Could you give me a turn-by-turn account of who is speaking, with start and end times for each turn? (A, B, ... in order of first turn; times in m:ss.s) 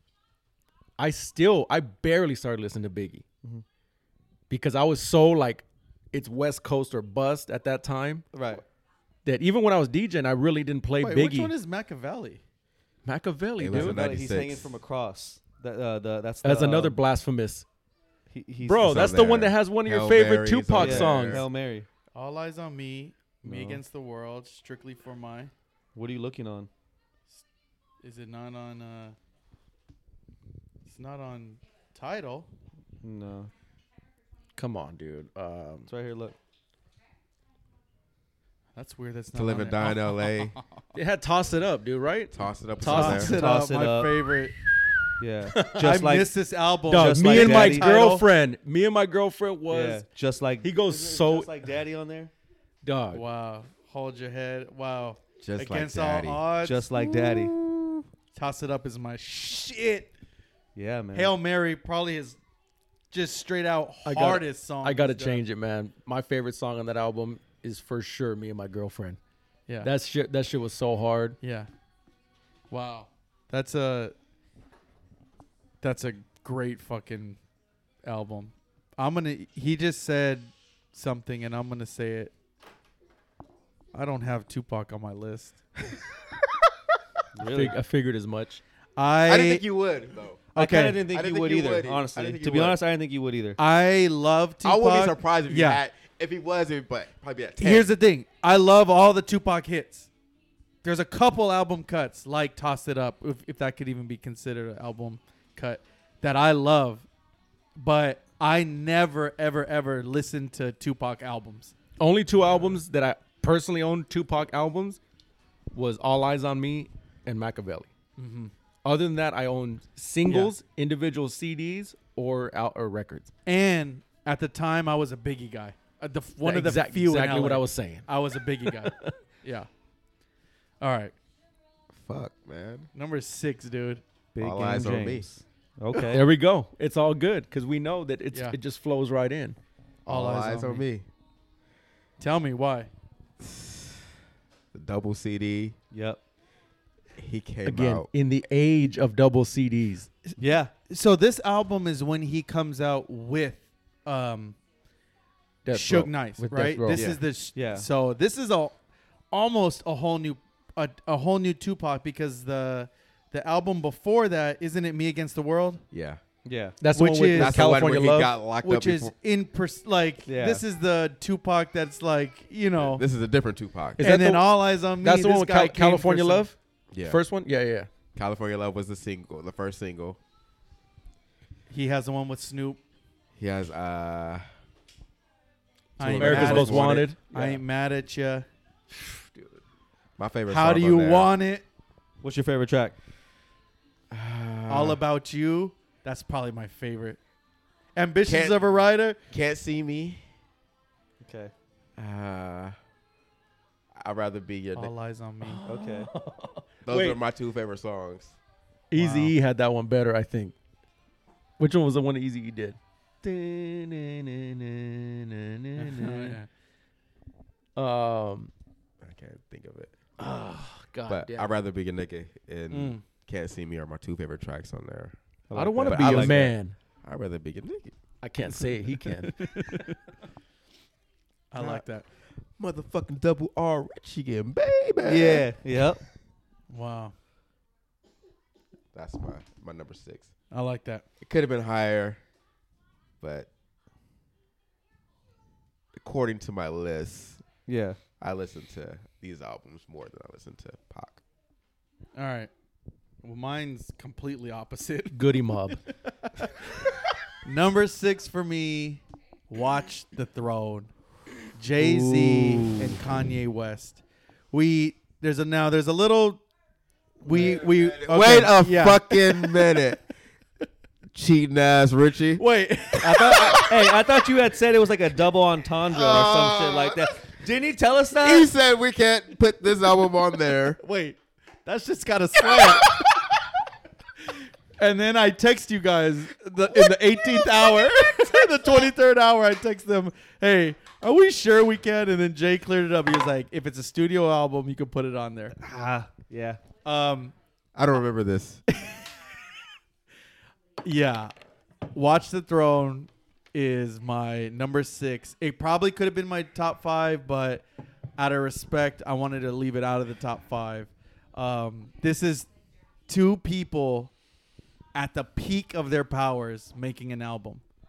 0:01.0-0:03.2 A
0:04.5-0:08.2 A
0:08.3-0:08.6 B
0:09.2-0:11.5 A
0:11.0-0:12.4 C
0:13.0-0:14.0 A
0:13.6-0:14.8 D
0:13.7-0:17.0 B
0:16.4-0:17.6 A
0:18.3-0:19.0 B
0:18.6-0:21.4 A
0:18.8-0:21.4 D
0:20.8-0:21.9 B
0:22.1-0:25.5 C
0:23.4-0:23.8 B
0:25.9-0:26.7 B
0:28.0-0:29.2 C
0:30.8-0:32.5 C
0:33.0-0:33.5 B
0:34.6-0:35.9 A
0:35.9-0:36.4 B
0:38.8-0:40.6 C
0:39.3-0:40.6 D
0:40.9-0:43.4 A
0:42.3-0:43.3 D
0:42.8-0:44.5 C
0:43.3-0:44.2 B
0:45.2-0:46.3 B
0:45.5-0:45.9 A
0:45.8-0:48.2 C
0:46.9-0:50.0 A
0:46.9-0:47.9 B
0:49.7-0:52.3 B
0:50.6-0:51.5 A
0:52.8-0:53.2 A
0:53.1-0:56.8 C
0:55.4-0:56.4 D
0:56.6-0:57.6 B
0:57.0-0:58.0 D
0:58.3-1:00.1 C
1:00.7-1:01.3 B
1:01.1-1:02.4 C
1:03.1-1:05.4 C
1:04.0-1:09.2 A
1:09.8-1:11.4 A
1:11.4-1:11.7 C
1:12.7-1:14.1 C
1:15.8-1:17.4 C
1:18.0-1:22.3 C
1:23.9-1:25.6 C
1:27.3-1:27.8 B
1:27.4-1:28.6 A
1:29.0-1:29.6 C
1:29.2-1:30.4 D
1:30.5-1:31.0 C
1:30.5-1:33.6 B
1:31.0-1:32.8 D
1:33.6-1:35.8 C
1:34.6-1:37.9 D
1:37.6-1:40.1 C
1:40.8-1:47.1 C
1:47.8-1:51.7 C
1:52.0-1:55.0 A
1:52.5-1:52.8 D
1:55.7-1:57.9 A
1:58.2-1:58.5 C
1:58.8-2:03.3 A
2:00.2-2:00.5 C
2:03.4-2:09.7 C
2:06.4-2:08.1 A
2:08.6-2:09.1 A
2:10.8-2:11.1 C
2:11.9-2:12.9 D
2:12.9-2:14.0 C
2:14.3-2:16.3 B
2:14.4-2:15.3 D
2:16.1-2:19.6 A
2:20.0-2:20.8 C
2:20.1-2:21.0 D
2:22.2-2:22.9 C
2:23.4-2:24.0 D
2:24.7-2:25.8 D
2:25.9-2:26.2 B
2:27.2-2:28.1 D
2:27.6-2:30.1 A
2:30.3-2:34.6 C
2:30.4-2:30.7 B
2:35.6-2:37.1 A
2:35.7-2:38.8 C
2:36.9-2:37.2 D
2:37.5-2:37.9 B
2:39.3-2:45.8 C
2:45.9-2:46.2 D
2:46.4-2:46.8 B
2:46.8-2:48.3 A
2:46.9-2:47.6 C
2:47.4-2:49.1 D
2:48.6-2:53.0 C
2:50.2-2:50.6 B
2:52.9-2:54.0 D
2:54.0-2:56.4 C
2:54.0-2:57.9 A
2:56.9-2:57.2 D
2:58.2-3:00.2 D
3:01.7-3:02.8 C
3:03.4-3:04.4 D
3:06.0-3:08.5 C
3:06.0-3:07.1 D
3:06.2-3:07.2 A
3:07.3-3:07.6 B
3:09.0-3:09.5 A
3:10.2-3:11.3 D
3:10.5-3:11.6 C
3:12.2-3:13.0 B
3:14.1-3:15.0 D
3:14.7-3:17.2 C
3:18.0-3:19.2 C
3:18.2-3:20.2 D
3:21.2-3:21.5 B
3:22.0-3:22.8 D
3:23.9-3:24.9 D
3:24.7-3:25.6 C
3:25.4-3:27.2 A
3:25.6-3:26.1 B
3:26.8-3:28.4 D
3:28.9-3:30.5 A
3:29.0-3:29.3 C
3:31.6-3:36.4 A
3:35.8-3:36.5 C
3:37.8-3:38.5 A
3:39.0-3:40.0 D
3:40.2-3:41.5 A
3:41.1-3:45.2 D
3:42.7-3:43.0 C
3:45.5-3:46.4 B
3:45.5-3:46.7 A
3:45.8-3:48.0 D
3:48.2-3:49.9 A
3:49.0-3:49.9 C
3:51.5-3:52.0 C
3:51.6-3:51.8 D
3:52.6-3:55.5 D
3:55.0-3:56.0 B
3:56.7-3:57.1 C
3:58.9-4:00.3 D
4:00.5-4:01.0 C
4:01.2-4:02.2 D
4:03.2-4:03.5 D
4:05.9-4:07.4 D
4:07.7-4:08.0 B
4:08.2-4:11.2 D
4:12.2-4:12.5 C
4:13.2-4:16.7 C
4:15.1-4:15.8 A
4:17.4-4:20.9 C
4:21.5-4:24.0 C
4:21.8-4:23.0 B
4:24.5-4:26.4 C
4:27.2-4:29.9 C
4:27.2-4:30.1 D
4:31.1-4:32.4 D
4:32.4-4:34.0 C
4:33.0-4:38.5 B
4:35.9-4:37.1 D
4:38.2-4:40.8 D
4:40.8-4:43.0 C
4:44.8-4:55.6 C
4:55.6-4:56.6 B
4:56.8-4:57.3 C
4:57.7-4:58.6 D
5:00.8-5:01.3 C
5:01.9-5:07.6 C
5:08.2-5:12.5 C
5:13.1-5:14.1 C
5:14.9-5:17.6 C